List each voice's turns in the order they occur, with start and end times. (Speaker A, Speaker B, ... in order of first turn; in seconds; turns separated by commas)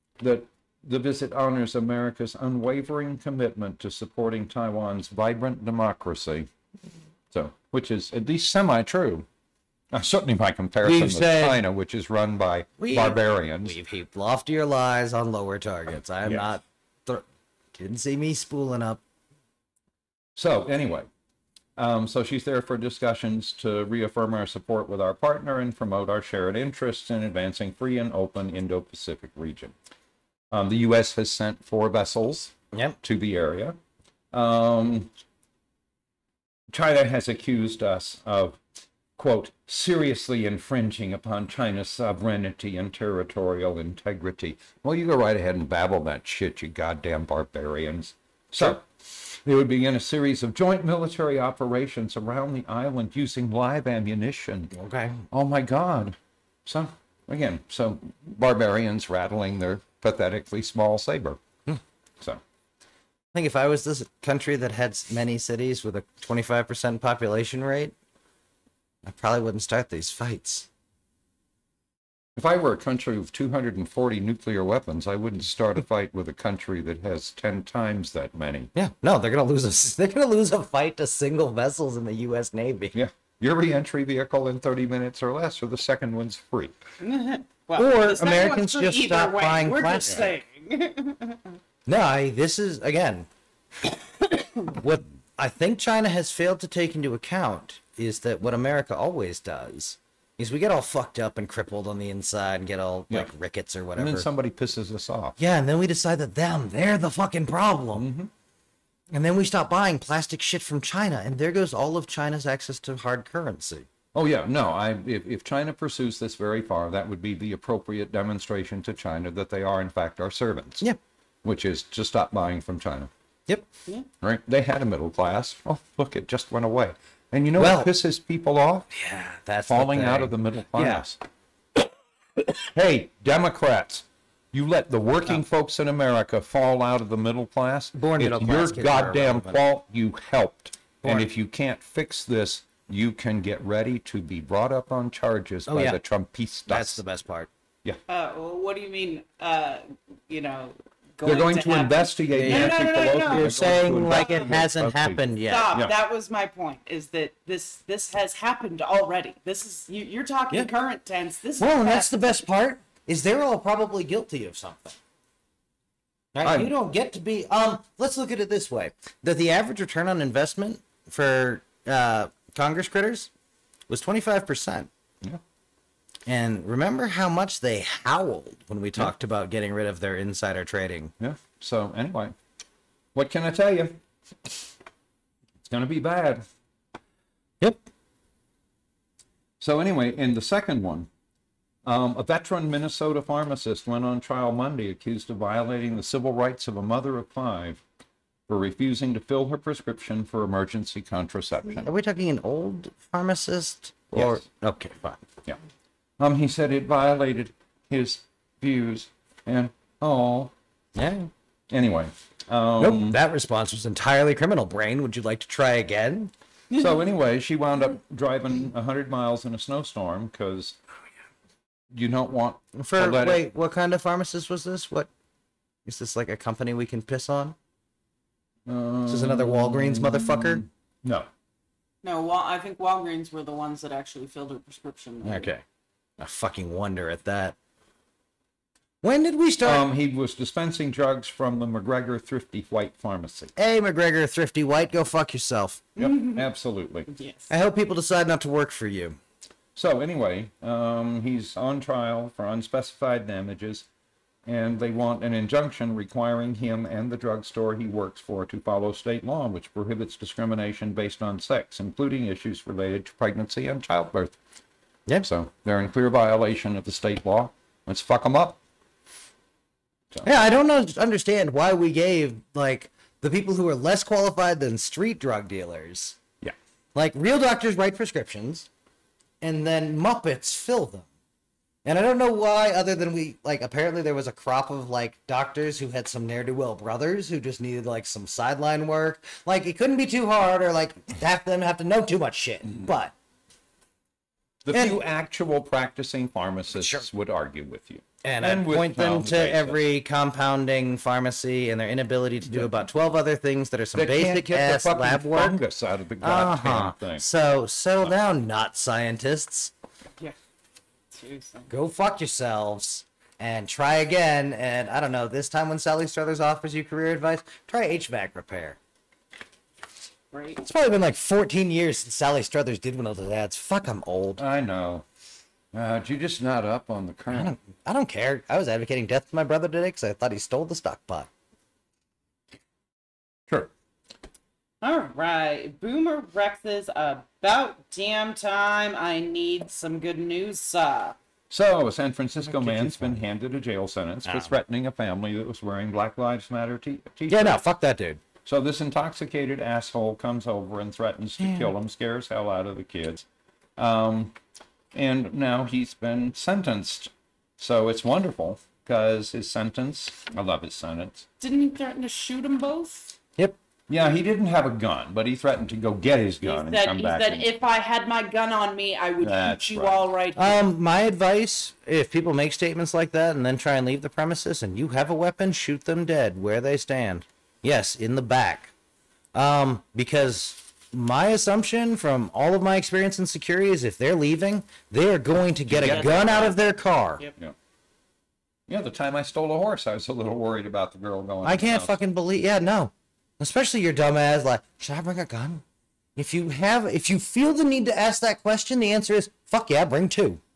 Speaker A: 0.2-6.5, Speaker A: 7.3-9.2, Speaker A: 9.9-13.8, Speaker B: 10.8-11.6, Speaker B: 12.8-17.2, Speaker B: 17.8-19.0, Speaker A: 20.4-21.1, Speaker A: 21.8-29.7, Speaker A: 30.5-33.8, Speaker B: 32.7-33.0, Speaker A: 34.3-35.1, Speaker A: 36.7-38.6, Speaker A: 39.2-54.7, Speaker B: 54.7-55.2, Speaker A: 55.3-61.4, Speaker B: 63.3-67.9, Speaker B: 69.0-70.7, Speaker A: 72.3-78.7, Speaker B: 78.7-82.9, Speaker A: 82.9-86.8, Speaker C: 87.0-91.5, Speaker B: 87.8-90.3, Speaker B: 91.8-93.3, Speaker B: 94.7-104.3, Speaker A: 104.0-105.4, Speaker B: 105.4-108.0, Speaker A: 107.9-108.3, Speaker B: 109.1-113.9, Speaker A: 114.1-120.9, Speaker A: 121.4-123.1, Speaker A: 124.2-128.9, Speaker B: 127.5-127.9, Speaker B: 128.9-131.0, Speaker A: 129.7-131.2, Speaker A: 132.4-147.0, Speaker B: 137.9-139.6, Speaker B: 141.0-141.3, Speaker B: 145.7-146.0, Speaker B: 146.7-147.5, Speaker C: 148.1-154.5, Speaker A: 151.2-155.2, Speaker B: 152.3-155.7, Speaker C: 155.4-162.2, Speaker B: 161.6-165.0, Speaker B: 166.3-173.3, Speaker A: 166.4-166.7, Speaker B: 173.9-174.9, Speaker B: 176.2-181.1, Speaker A: 181.2-182.3, Speaker A: 183.1-184.0, Speaker A: 185.6-186.4, Speaker A: 189.6-191.1, Speaker A: 191.8-197.8, Speaker A: 198.5-201.9, Speaker B: 201.7-205.2, Speaker A: 204.1-204.4, Speaker A: 206.2-210.5, Speaker B: 210.9-211.3, Speaker A: 211.7-213.2, Speaker B: 212.8-216.3, Speaker A: 216.7-220.8, Speaker A: 221.9-223.4, Speaker B: 222.8-225.1, Speaker B: 225.8-227.6, Speaker A: 228.7-231.3, Speaker B: 229.1-230.6, Speaker C: 232.0-235.5, Speaker B: 235.2-235.6, Speaker B: 236.2-237.6, Speaker B: 239.0-239.8, Speaker A: 239.6-243.5, Speaker B: 243.6-245.9, Speaker A: 246.0-247.1, Speaker C: 246.0-246.4, Speaker C: 247.1-247.5, Speaker B: 247.5-249.2, Speaker A: 249.7-253.8, Speaker A: 254.4-264.3, Speaker A: 265.2-268.6, Speaker B: 270.2-276.2, Speaker B: 276.9-278.7, Speaker B: 279.4-281.1, Speaker B: 281.8-293.1, Speaker A: 294.6-299.8, Speaker B: 294.7-295.0, Speaker B: 296.7-297.0, Speaker B: 298.2-305.6, Speaker A: 303.9-307.2, Speaker B: 306.2-309.7, Speaker C: 311.1-311.7, Speaker B: 311.7-318.8, Speaker C: 320.3-320.6, Speaker B: 320.6-324.4, Speaker A: 324.4-325.0, Speaker A: 325.7-327.5, Speaker B: 327.3-331.3, Speaker C: 334.8-341.1, Speaker A: 341.5-347.6, Speaker B: 342.4-343.2, Speaker B: 344.2-344.6, Speaker B: 347.3-348.2, Speaker A: 348.4-353.2, Speaker B: 351.4-351.7, Speaker A: 353.8-354.3, Speaker A: 354.9-361.2, Speaker C: 361.4-363.1, Speaker A: 363.9-367.5, Speaker C: 366.4-370.6, Speaker A: 369.2-370.0, Speaker B: 370.4-378.7, Speaker B: 379.3-387.2, Speaker A: 385.7-386.5, Speaker C: 385.8-386.5, Speaker A: 388.7-391.9, Speaker B: 391.4-395.6, Speaker B: 396.1-400.4